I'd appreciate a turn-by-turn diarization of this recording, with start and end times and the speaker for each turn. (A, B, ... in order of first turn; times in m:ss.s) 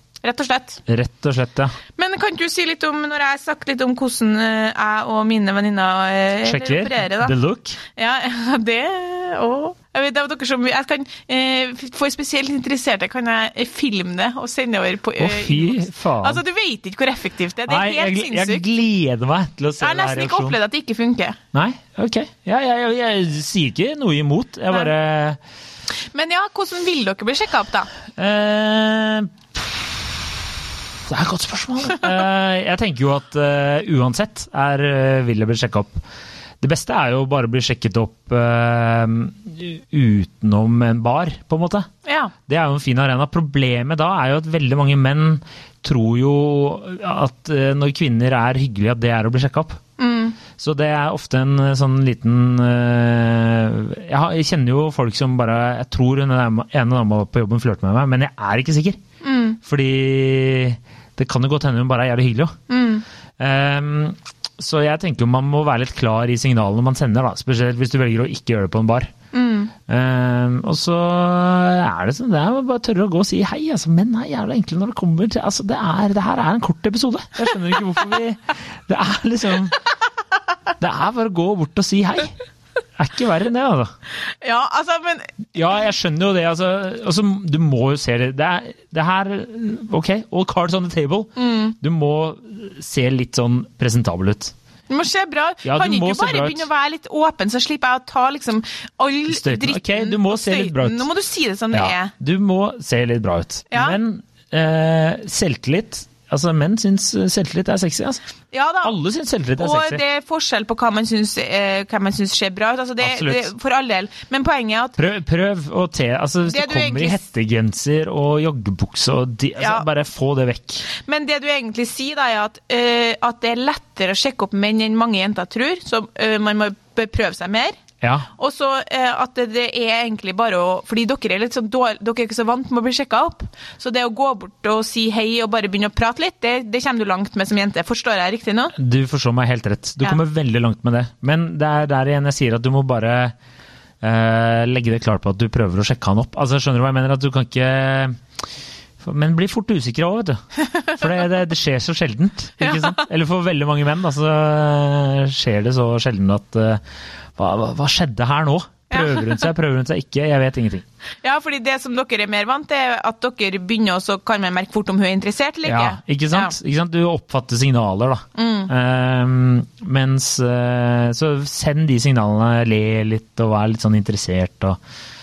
0:00.2-0:00.8 A
0:00.9-0:01.8 B
0:02.0-0:07.3 A
0:06.4-0:07.8 B
0:08.0-0:18.6 A
0:15.2-0:16.4 B
0:17.7-0:20.6 B
0:19.8-0:21.4 A
0:21.5-0:25.4 B
0:26.1-0:27.9 A
0:28.2-0:36.0 B
0:36.6-0:41.9 B
0:42.0-0:42.3 A
0:42.5-0:49.8 B
0:50.0-0:50.4 A
0:50.6-0:59.0 B
0:59.2-0:59.6 A
0:59.6-1:02.6 B
1:02.7-1:03.0 A
1:03.4-1:09.1 B
1:09.3-1:09.7 A
1:09.9-1:19.8 B
1:20.8-1:22.4 B
1:23.0-1:23.9 B
1:24.3-1:25.5 A
1:25.6-1:34.5 B
1:31.4-1:31.7 A
1:34.9-1:42.1 A
1:35.6-1:36.7 B
1:39.3-1:41.1 B
1:41.7-1:48.2 B
1:43.7-1:44.0 A
1:48.5-1:49.0 A
1:48.8-1:50.0 B
1:49.6-1:55.0 A
1:53.0-1:53.5 B
1:55.0-2:00.8 B
1:56.5-1:57.2 A
1:59.6-1:59.9 A
2:00.9-2:07.8 A
2:08.0-2:08.3 B
2:08.4-2:18.8 A
2:18.8-2:23.3 B
2:24.0-2:28.2 B
2:29.0-2:36.8 B
2:30.7-2:31.0 A
2:32.6-2:33.0 A
2:37.4-2:40.8 B
2:38.9-2:39.5 A
2:41.2-2:46.6 A
2:45.6-2:54.8 B
2:48.4-2:48.7 A